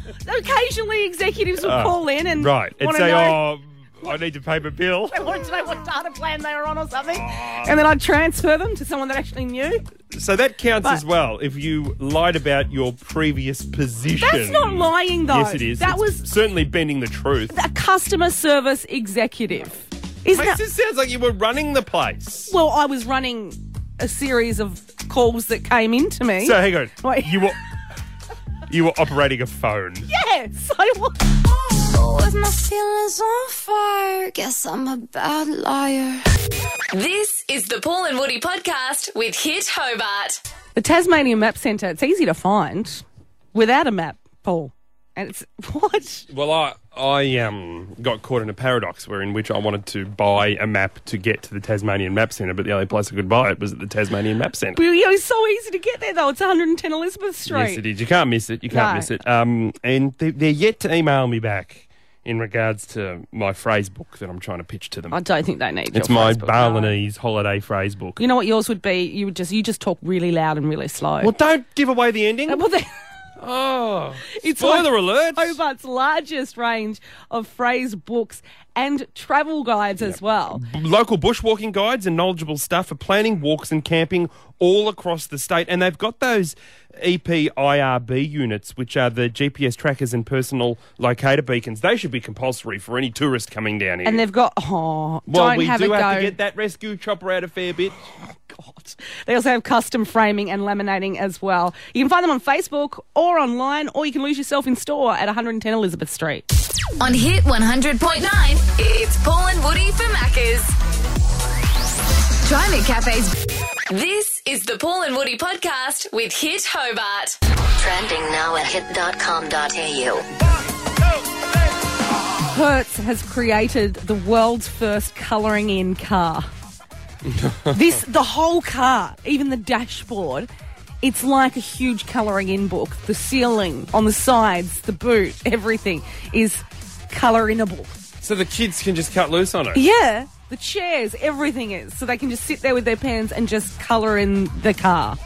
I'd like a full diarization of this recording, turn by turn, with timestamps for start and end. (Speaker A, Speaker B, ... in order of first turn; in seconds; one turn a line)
Speaker A: 0.2-3.4
Speaker B: 1.6-5.3
Speaker A: 5.1-9.9
Speaker B: 7.2-7.7
Speaker B: 10.1-17.5
Speaker A: 14.2-16.3
Speaker A: 17.5-20.6
Speaker B: 20.3-22.5
Speaker A: 22.5-27.5
Speaker B: 26.4-27.6
Speaker B: 28.7-30.1
Speaker A: 30.1-31.2
Speaker C: 31.7-36.2
Speaker D: 36.9-40.4
Speaker A: 40.8-46.3
Speaker B: 46.3-54.8
Speaker A: 54.8-57.8
Speaker B: 57.5-65.2
Speaker A: 58.7-59.1
Speaker A: 65.1-67.0
Speaker B: 65.9-68.2
Speaker A: 68.2-71.3
Speaker B: 71.2-72.6
Speaker A: 72.5-72.9
Speaker B: 73.4-75.6
Speaker A: 74.3-80.6
Speaker B: 80.0-94.2
Speaker A: 94.0-96.3
Speaker B: 95.3-98.0
Speaker A: 98.6-106.5
Speaker D: 107.0-110.7
Speaker D: 112.4-113.4
Speaker D: 113.9-117.4
Speaker E: 117.8-120.3
Speaker A: 122.5-126.5
Speaker B: 127.2-128.0
Speaker A: 127.7-130.5
Speaker A: 131.0-137.9
Speaker B: 138.2-139.8
Speaker A: 139.7-145.2